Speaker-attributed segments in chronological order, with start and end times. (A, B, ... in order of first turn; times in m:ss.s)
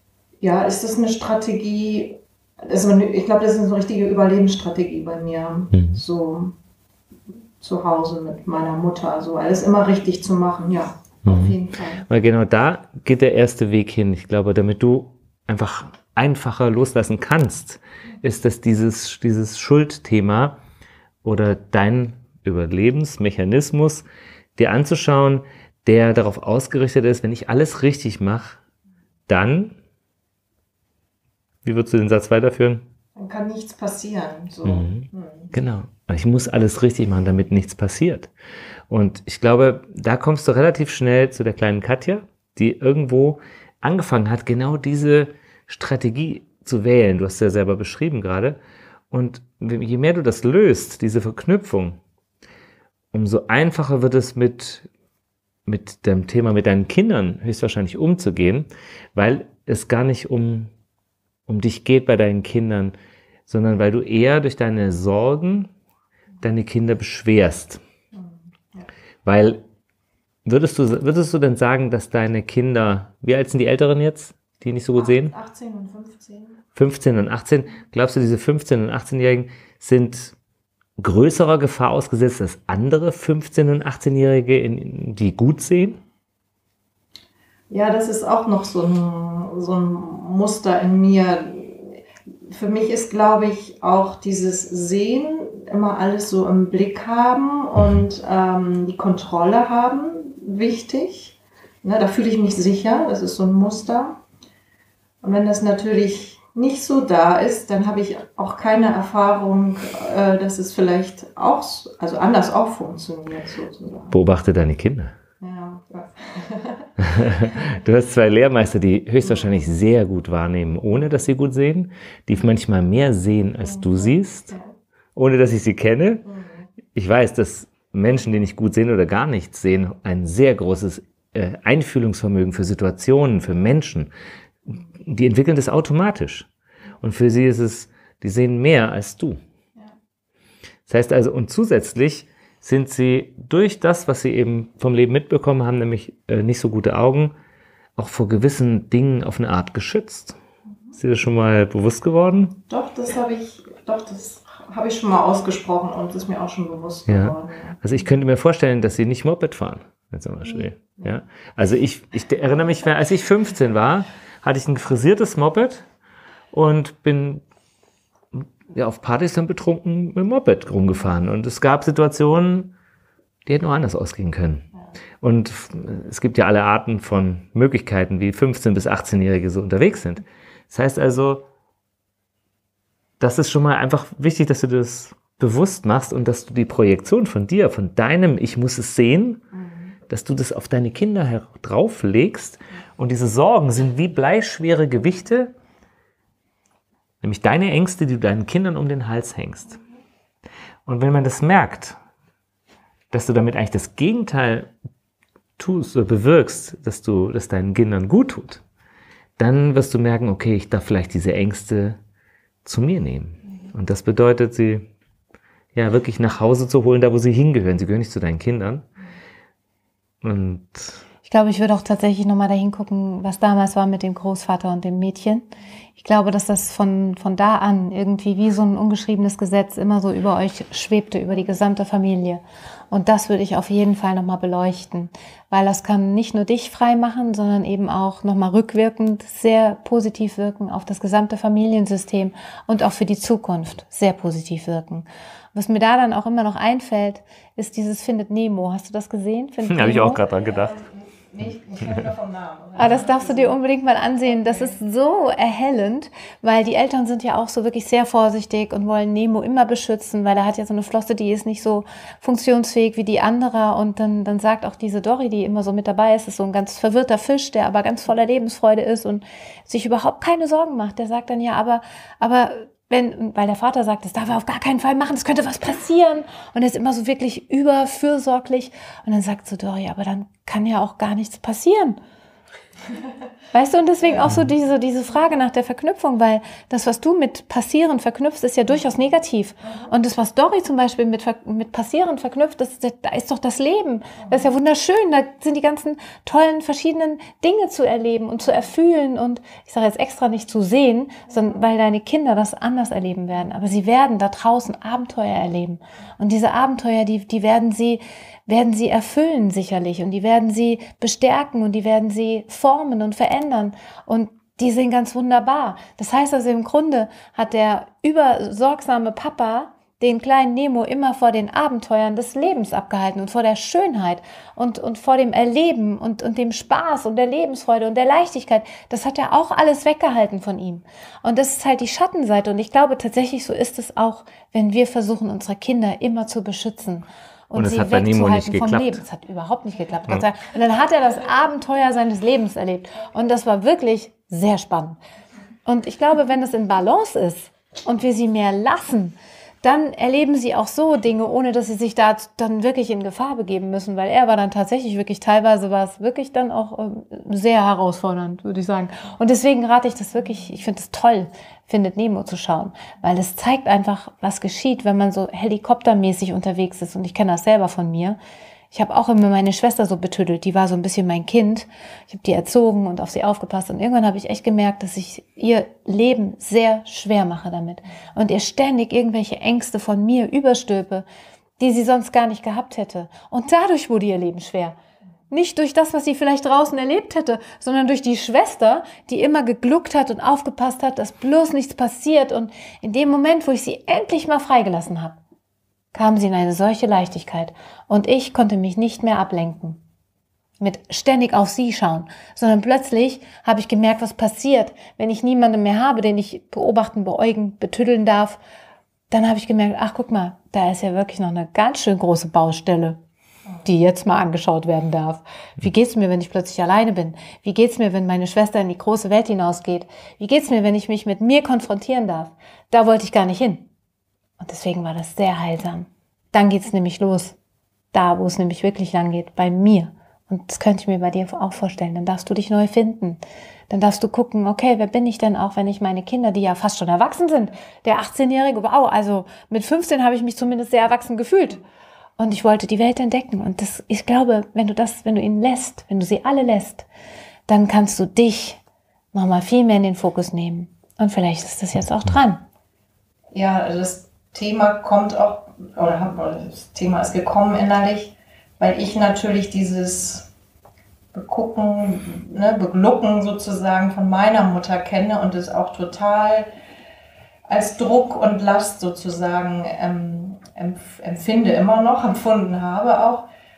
0:00.4-0:06.5 A
0:05.7-0:06.0 B
0:07.6-0:12.0 A
0:11.2-0:11.6 B
0:12.1-0:20.6 B
0:21.2-0:24.0 B
0:24.6-0:28.6 B
0:29.3-0:29.7 B
0:31.6-0:32.8 B
0:33.2-0:35.5 A
0:34.6-0:38.3 B
0:38.9-0:48.6 B
0:49.1-0:52.0 B
0:53.1-0:54.9 B
0:55.7-1:00.7 B
1:01.5-1:02.9 B
1:03.5-1:05.7 B
1:06.4-1:07.8 B
1:08.1-1:08.9 A
1:09.2-1:09.6 B
1:10.4-1:15.3 B
1:14.9-1:16.6 A
1:16.8-1:20.3 B
1:21.0-1:26.0 B
1:27.7-1:44.2 A
1:45.2-1:54.2 A
1:54.1-1:55.1 B
1:55.4-1:57.7 A
1:57.0-2:04.5 B
1:59.2-1:59.5 A
2:03.6-2:04.7 A
2:05.1-2:06.2 B
2:06.2-2:06.7 A
2:06.9-2:14.1 B
2:15.0-2:16.5 B
2:17.0-2:19.4 B
2:20.9-2:27.3 B
2:28.0-2:30.3 B
2:31.0-2:32.6 B
2:32.7-2:37.8 A
2:37.1-2:45.8 B
2:40.4-2:41.2 A
2:46.5-2:47.4 B
2:48.3-2:52.7 B
2:53.4-2:54.7 B
2:55.2-3:01.4 B
3:03.2-3:09.4 B
3:09.6-3:09.9 A
3:10.1-3:15.5 B
3:17.2-3:19.8 B
3:20.8-3:22.0 B
3:23.1-3:24.7 B
3:25.6-3:28.6 B
3:29.4-3:32.0 B
3:32.6-3:34.9 B
3:35.7-3:38.8 B
3:40.2-3:41.0 B
3:41.2-3:45.4 C
3:46.0-4:10.2 C
4:09.7-4:10.7 B
4:10.4-4:13.6 A
4:12.8-4:42.0 C
4:14.3-4:14.8 A
4:43.5-5:45.0 C
5:37.5-5:39.0 B
5:45.6-6:08.2 C
6:08.7-6:21.0 C
6:21.6-6:24.7 C
6:25.3-6:35.2 C
6:35.9-6:39.8 C
6:40.6-6:48.4 C
6:49.1-6:53.0 C
6:53.6-7:03.7 C
7:04.4-7:07.4 C
7:07.9-7:13.2 C
7:13.7-7:21.6 C
7:22.2-7:26.9 C
7:27.5-7:28.6 C
7:29.1-7:32.4 C
7:33.3-7:40.3 A
7:41.1-7:46.5 A
7:47.5-7:53.3 A